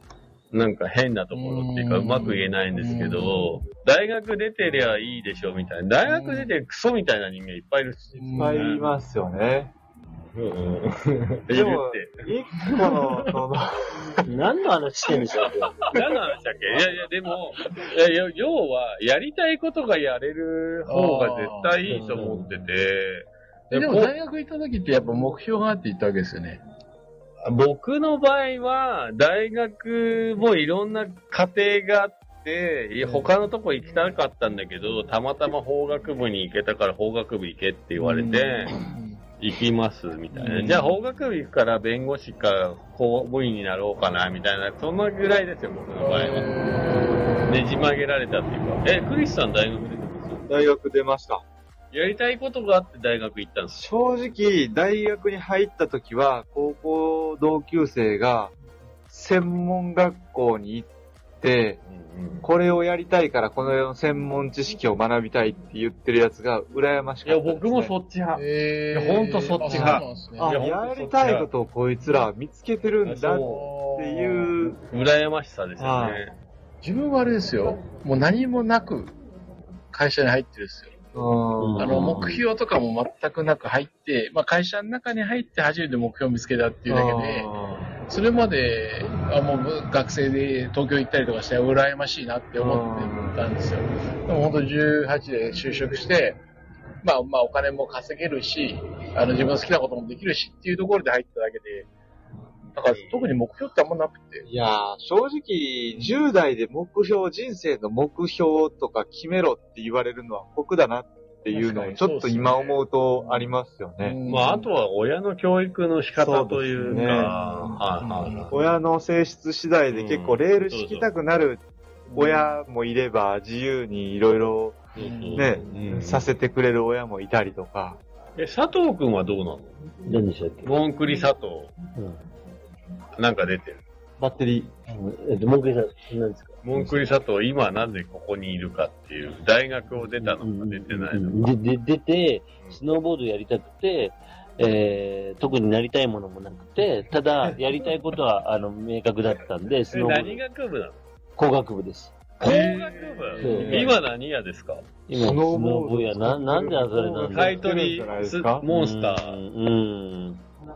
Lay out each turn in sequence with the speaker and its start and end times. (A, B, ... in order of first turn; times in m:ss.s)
0:00.5-0:08.9 A
0:01.3-0:03.5 B
0:06.0-0:06.5 B
0:08.2-0:08.6 B
0:08.4-0:09.7 C
0:10.4-0:12.2 A
0:11.5-0:14.2 C
0:12.6-0:13.3 B
0:14.2-0:15.7 D
0:15.9-0:24.1 A
0:20.9-0:21.7 B
0:21.9-0:22.5 D
0:21.9-0:22.3 C
0:23.7-0:26.6 B
0:27.4-0:38.8 A
0:33.0-0:33.3 B
0:38.0-0:39.2 B
0:39.4-0:46.8 A
0:40.3-0:40.8 B
0:40.4-0:40.8 C
0:46.0-0:47.6 B
0:47.4-0:50.5 A
0:50.5-0:51.4 C
0:51.9-0:53.9 A
0:53.7-0:58.5 C
0:59.1-1:00.9 C
1:01.4-1:01.8 C
1:01.9-1:02.5 A
1:02.4-1:07.9 C
1:07.2-1:11.5 A
1:08.4-1:10.6 B
1:09.6-1:14.8 C
1:13.0-1:13.7 A
1:13.4-1:14.5 B
1:14.9-1:16.3 A
1:15.8-1:16.2 C
1:16.8-1:19.1 B
1:19.9-1:21.0 B
1:21.1-1:22.2 C
1:21.6-1:22.4 D
1:21.8-1:27.5 B
1:26.9-1:27.9 C
1:28.1-1:36.4 B
1:32.6-1:33.4 C
1:37.0-1:41.9 B
1:42.7-1:44.4 B
1:42.9-1:43.4 A
1:44.4-1:54.2 C
1:51.5-1:53.5 B
1:54.0-1:54.7 B
1:54.3-1:58.6 A
1:56.1-1:57.4 C
1:56.9-1:58.6 B
1:58.5-2:08.0 C
1:59.9-2:01.1 A
2:02.2-2:02.5 B
2:05.0-2:06.3 A
2:05.0-2:05.6 B
2:08.4-2:09.7 A
2:10.1-2:10.7 D
2:10.6-2:11.7 A
2:11.9-2:12.2 D
2:13.2-2:13.8 A
2:14.2-2:14.7 C
2:14.9-2:17.0 D
2:16.6-2:21.4 A
2:20.2-2:30.4 D
2:29.9-2:31.0 A
2:31.4-2:32.2 D
2:32.4-2:34.9 A
2:32.4-2:34.0 C
2:33.4-2:34.0 D
2:33.4-2:33.7 B
2:35.1-2:37.6 D
2:35.1-2:38.6 C
2:37.2-2:39.4 A
2:38.6-2:40.4 D